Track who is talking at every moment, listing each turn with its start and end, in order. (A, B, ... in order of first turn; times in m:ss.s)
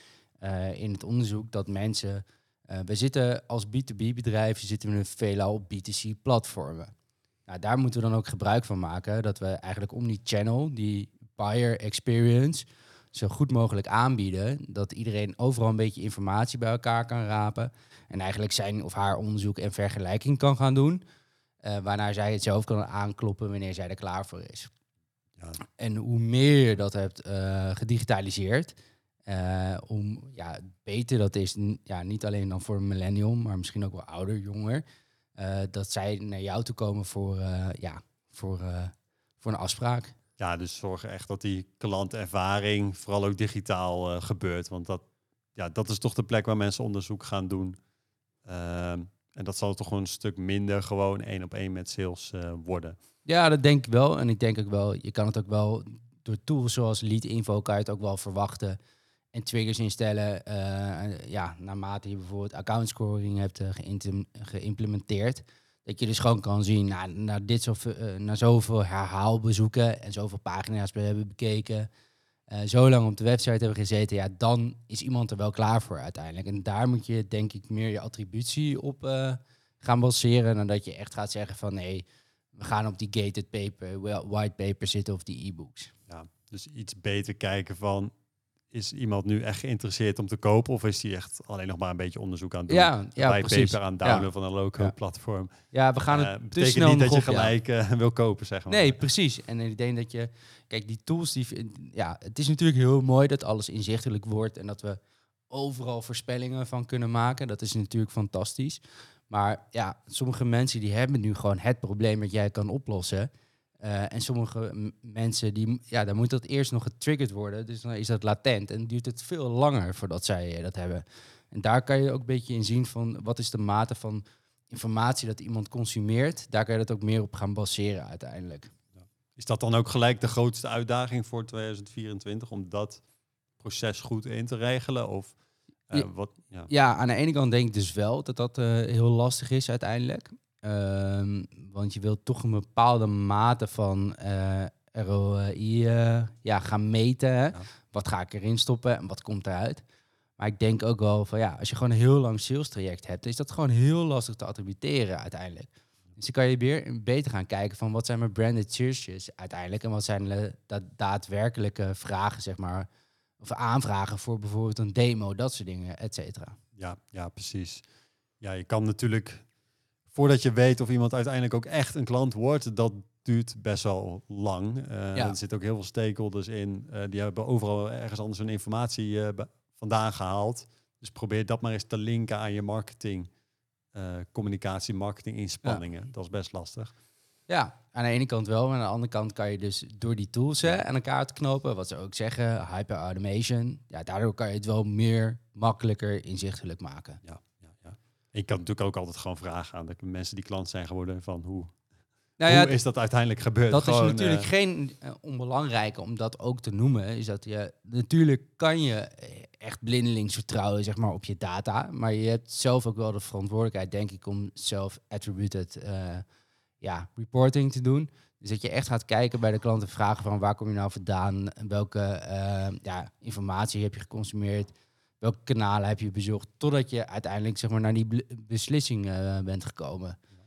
0:00.4-0:06.9 A
0:07.5-0:21.0 A
0:21.6-0:24.7 A
0:25.6-0:28.8 A
0:29.3-0:34.8 A
0:35.4-0:40.1 A
0:40.4-0:45.0 B
0:45.6-0:47.8 B
0:48.4-0:53.0 B
0:53.2-0:58.8 A
0:59.3-1:11.9 A
1:12.5-1:22.0 A
1:22.6-1:25.9 A
1:26.1-1:28.1 B
1:28.7-1:35.5 B
1:32.7-1:34.9 A
1:35.7-1:37.5 A
1:36.1-1:39.0 B
1:38.7-1:45.0 A
1:45.5-2:08.7 A
2:09.0-2:13.0 B
2:13.6-2:15.3 B
2:15.9-2:16.7 B
2:16.7-2:29.8 A
2:30.4-2:42.9 A
2:43.4-2:46.6 A
2:46.8-2:47.8 B
2:48.4-2:49.4 B
2:50.1-3:03.3 B
3:03.9-3:06.9 B
3:07.5-3:17.2 A
3:17.2-3:21.7 B
3:22.4-3:22.8 A
3:22.4-3:24.5 B
3:23.7-3:36.2 A
3:36.8-3:50.2 A